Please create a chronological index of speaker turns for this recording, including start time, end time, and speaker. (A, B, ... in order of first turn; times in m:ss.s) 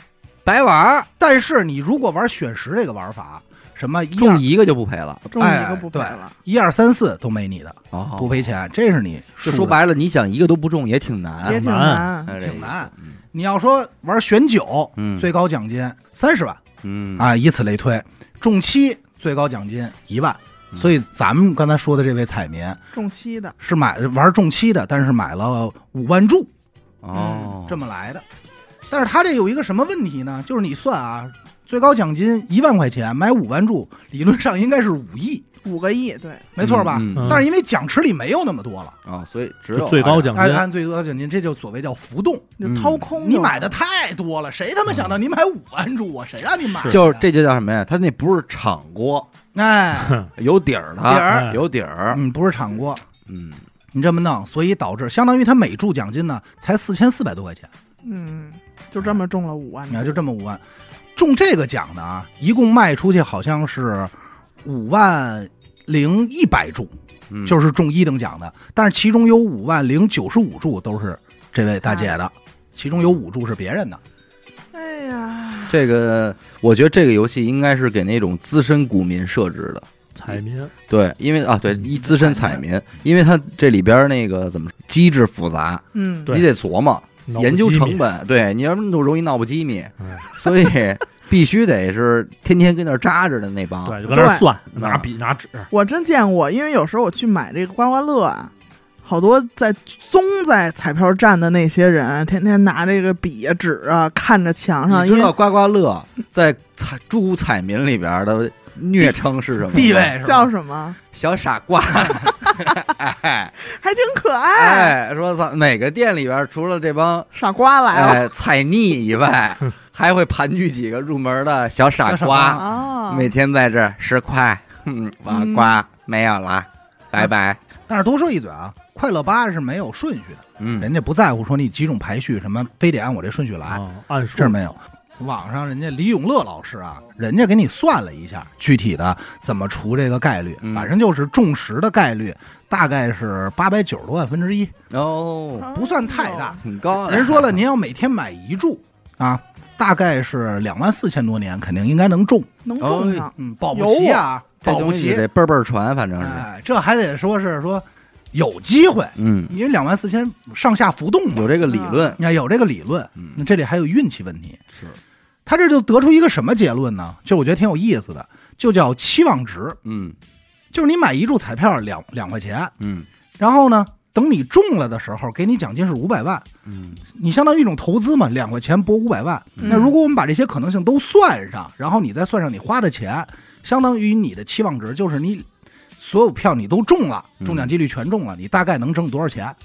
0:00.4-0:01.1 A
0:01.2-0:04.4 B
0:04.2-0:05.3 A
0:05.3-0:06.3 C
0:05.4-0:09.8 B
0:07.9-0:08.5 A
0:09.4-0:11.6 A
0:11.4-0:12.3 C
0:11.5-0:12.1 D
0:12.2-0:13.2 A
0:12.4-0:16.6 B
0:15.0-0:15.3 A
0:16.8-0:17.3 A
0:17.2-0:22.8 B
0:22.9-0:23.5 C
0:23.6-0:26.5 B
0:27.0-0:27.8 A
0:27.1-0:27.5 C
0:27.6-0:28.2 B
0:28.9-0:35.4 B
0:35.6-0:36.4 C
0:36.6-0:38.9 B
0:36.6-0:37.4 A
0:37.1-0:37.4 D
0:39.0-0:40.4 A
0:39.7-0:40.6 D
0:40.3-0:42.5 B
0:42.6-0:43.7 C
0:42.6-0:43.1 A
0:43.2-0:47.2 B
0:46.7-0:47.0 D
0:46.8-0:49.3 A
0:49.5-0:50.2 B
0:50.4-0:52.2 A
0:51.0-0:51.6 B
0:51.3-0:51.6 D
0:52.1-0:53.0 B
0:53.3-0:53.6 A
0:53.9-0:57.7 B
0:58.0-1:00.2 C
0:59.9-1:00.6 B
1:01.1-1:06.9 B
1:07.3-1:07.6 A
1:07.4-1:14.0 B
1:11.8-1:12.1 C
1:14.7-1:15.8 C
1:15.7-1:20.3 A
1:20.1-1:20.7 D
1:20.9-1:35.1 A
1:22.0-1:22.6 B
1:25.9-1:26.3 C
1:27.3-1:28.0 D
1:33.8-1:35.7 D
1:34.1-1:34.5 C
1:35.7-1:38.5 C
1:39.0-1:45.3 C
1:44.9-1:50.1 A
1:49.7-1:50.5 B
1:50.2-1:51.0 C
1:51.1-1:53.5 A
1:52.2-1:52.6 C
1:53.6-1:55.0 C
1:54.5-1:57.3 A
1:57.3-1:58.3 C
1:57.9-2:07.6 A
2:02.0-2:02.6 B
2:02.6-2:03.3 C
2:05.3-2:05.8 C
2:07.9-2:13.8 B
2:10.6-2:10.9 A
2:13.7-2:14.6 D
2:14.3-2:24.7 B
2:20.6-2:20.9 A
2:24.9-2:25.7 A
2:25.6-2:26.6 C
2:25.7-2:32.5 B
2:26.6-2:27.6 A
2:32.6-2:34.2 C
2:32.8-2:33.3 A
2:33.4-2:35.3 B
2:34.6-2:36.5 A
2:36.2-2:41.5 B
2:39.2-2:39.5 A
2:41.3-2:42.2 A
2:41.6-2:42.2 C
2:42.2-2:44.6 B
2:44.7-2:45.0 A
2:45.4-2:49.8 B
2:49.8-2:50.1 A
2:50.7-2:52.7 B
2:52.8-2:53.1 A
2:53.4-2:56.4 B
2:56.6-2:57.0 A
2:57.1-3:05.5 B
2:59.6-2:59.9 A
2:59.6-2:59.9 C
3:06.0-3:09.6 B
3:07.4-3:07.7 A